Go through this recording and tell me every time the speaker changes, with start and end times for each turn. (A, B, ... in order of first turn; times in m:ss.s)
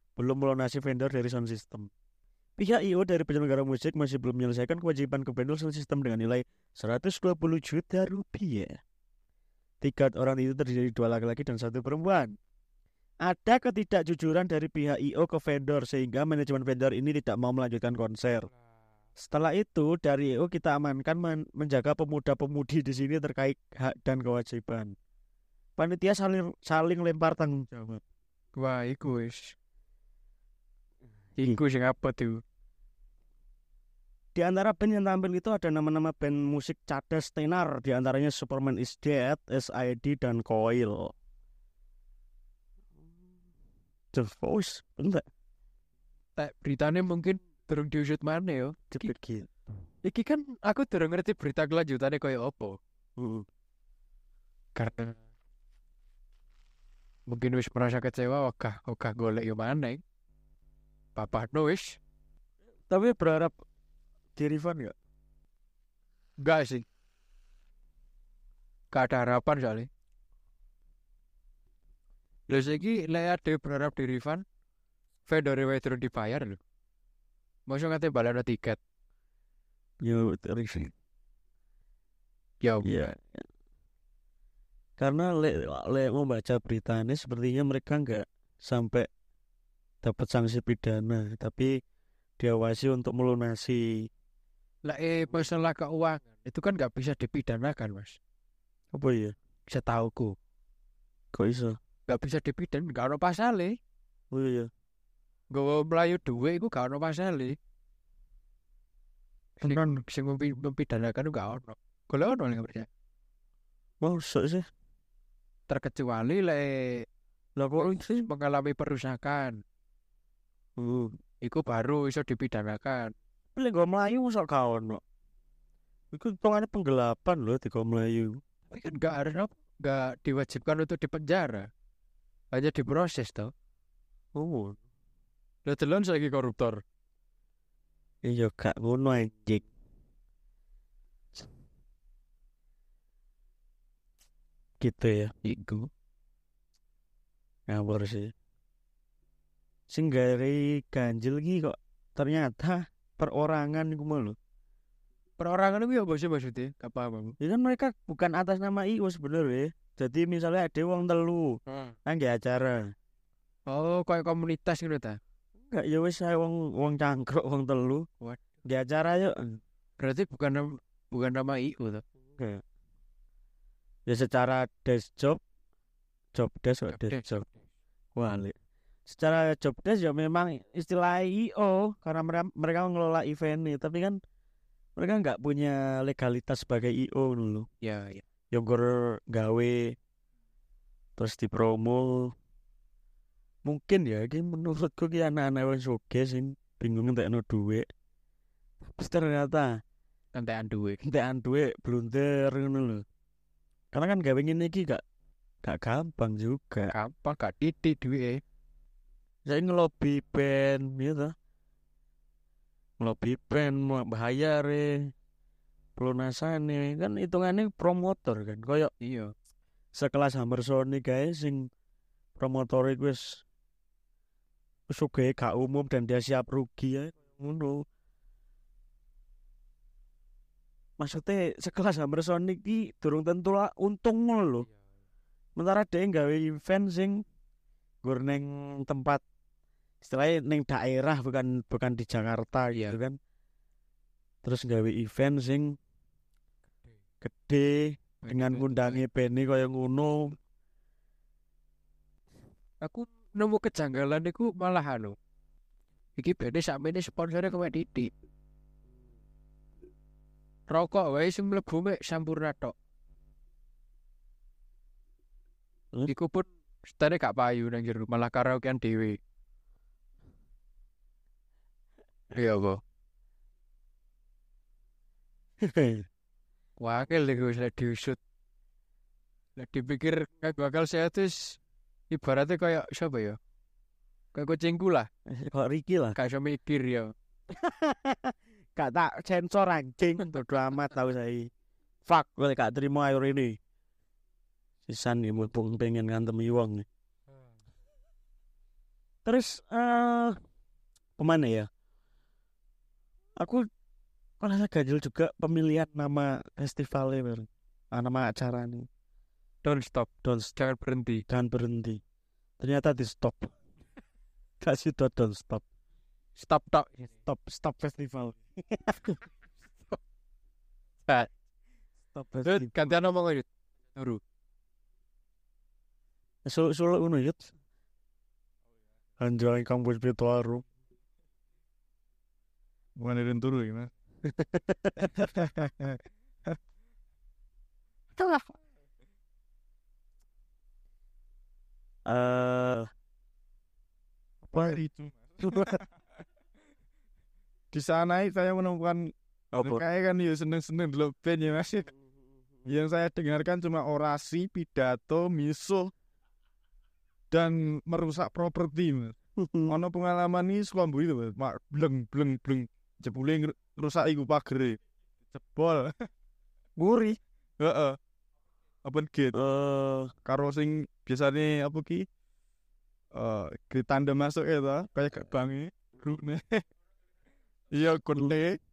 0:00.2-0:01.9 A
0:02.6-0:08.8 A
0:09.8-0:12.4 A
0:13.2-0:18.5 A
0:19.2-0:24.9 A
0:25.8-0:28.0 A
0:28.6-0:29.5 B
0:31.4-0:32.4 B
0:34.3-0:41.1 A
0:44.1-0:45.2 A
0:46.4-0:49.1 B
0:48.9-0:49.5 A
0:50.0-0:52.8 B
0:53.2-0:53.5 A
0:54.8-0:55.2 B
0:57.3-1:00.0 B
1:01.2-1:02.0 B
1:02.9-1:03.6 A
1:04.4-1:04.9 A
1:06.4-1:06.8 B
1:08.9-1:09.9 B
1:12.5-1:14.4 B
1:15.3-1:16.6 B
1:17.7-1:18.8 B
1:20.0-1:20.9 A
1:22.6-1:23.1 B
1:22.8-1:23.4 A
1:25.0-1:29.1 A
1:30.0-1:31.8 A
1:32.4-1:34.1 A
1:34.8-1:38.2 B
1:38.9-1:39.3 A
1:39.7-1:40.3 B
1:41.3-1:41.8 A
1:42.1-1:43.8 B
1:44.3-1:44.7 A
1:45.5-1:47.6 B
1:49.6-1:50.0 A
1:49.6-1:52.9 B
1:54.0-1:54.7 A
1:55.7-1:57.0 B
1:57.6-1:58.3 A
1:58.1-1:59.6 B
2:00.8-2:01.2 A
2:01.4-2:03.1 B
2:03.6-2:05.0 A
2:06.1-2:08.4 A
2:08.7-2:11.7 B
2:12.5-2:13.5 B
2:14.3-2:14.8 A
2:15.6-2:16.8 B
2:18.2-2:19.7 A
2:24.8-2:25.3 A
2:25.4-2:25.9 B
2:27.7-2:28.3 A
2:29.9-2:34.4 A
2:35.4-2:37.3 B
2:37.4-2:42.9 A
2:41.7-2:41.9 B
2:43.7-2:45.2 B
2:45.6-2:48.0 A
2:48.6-2:49.6 A
2:50.0-2:52.0 B
2:52.3-2:52.6 A
2:54.0-2:55.4 A
2:56.3-2:57.4 A
2:56.9-2:57.5 B
2:58.1-2:58.5 A
2:59.1-3:04.2 A
3:05.0-3:07.7 A
3:07.8-3:08.2 B
3:08.5-3:10.0 A
3:11.2-3:12.3 A
3:13.6-3:17.9 A
3:18.8-3:19.7 A
3:20.3-3:21.0 B
3:21.0-3:23.0 A
3:23.9-3:25.0 A
3:25.6-3:26.9 A
3:26.9-3:28.4 B
3:29.4-3:31.3 A
3:33.0-3:35.1 A
3:36.0-3:38.9 A
3:39.0-3:39.3 B
3:39.9-3:41.7 A
3:42.4-3:43.4 A
3:44.9-3:47.8 A
3:51.0-3:54.7 A
3:55.6-3:57.2 A
3:58.0-3:59.2 A
4:00.0-4:03.2 A
4:04.4-4:05.8 A
4:07.2-4:10.4 A
4:08.2-4:09.0 B
4:12.8-4:15.1 B
4:16.2-4:18.1 B
4:20.7-4:22.7 B
4:26.1-4:29.2 B
4:32.3-4:32.8 B
4:35.6-4:36.0 A
4:36.8-4:38.2 B
4:39.6-4:41.6 B
4:42.1-4:43.4 B
4:44.3-4:45.1 B
4:45.3-4:46.2 A
4:46.2-4:47.1 B
4:47.5-4:51.5 A
4:50.2-4:50.4 B
4:52.0-4:53.6 A
4:54.9-4:56.8 A
4:59.2-5:00.4 A
5:01.2-5:01.7 A
5:03.4-5:03.7 A
5:04.4-5:08.8 A
5:09.6-5:11.2 B
5:10.2-5:10.5 A
5:11.3-5:12.0 A
5:12.6-5:13.5 A
5:14.6-5:15.6 A
5:16.4-5:17.1 B
5:17.2-5:19.2 A
5:22.1-5:22.7 A
5:22.4-5:24.2 B
5:26.4-5:27.5 A
5:29.2-5:30.6 A
5:33.0-5:33.9 C
5:34.2-5:35.1 A
5:35.2-5:36.6 C
5:42.1-5:42.9 A
5:44.5-5:44.8 A
5:44.5-5:45.8 C
5:45.4-5:45.8 A
5:47.7-5:51.9 C
5:49.5-5:49.8 A
5:52.6-5:55.9 C
5:57.3-5:59.1 C
5:59.4-5:59.7 A
5:59.7-6:04.8 C
6:05.3-6:05.9 C
6:06.8-6:07.2 A
6:07.6-6:08.0 C
6:08.8-6:09.4 C
6:09.3-6:10.1 A
6:10.2-6:12.0 C
6:13.1-6:16.6 C
6:17.7-6:18.6 C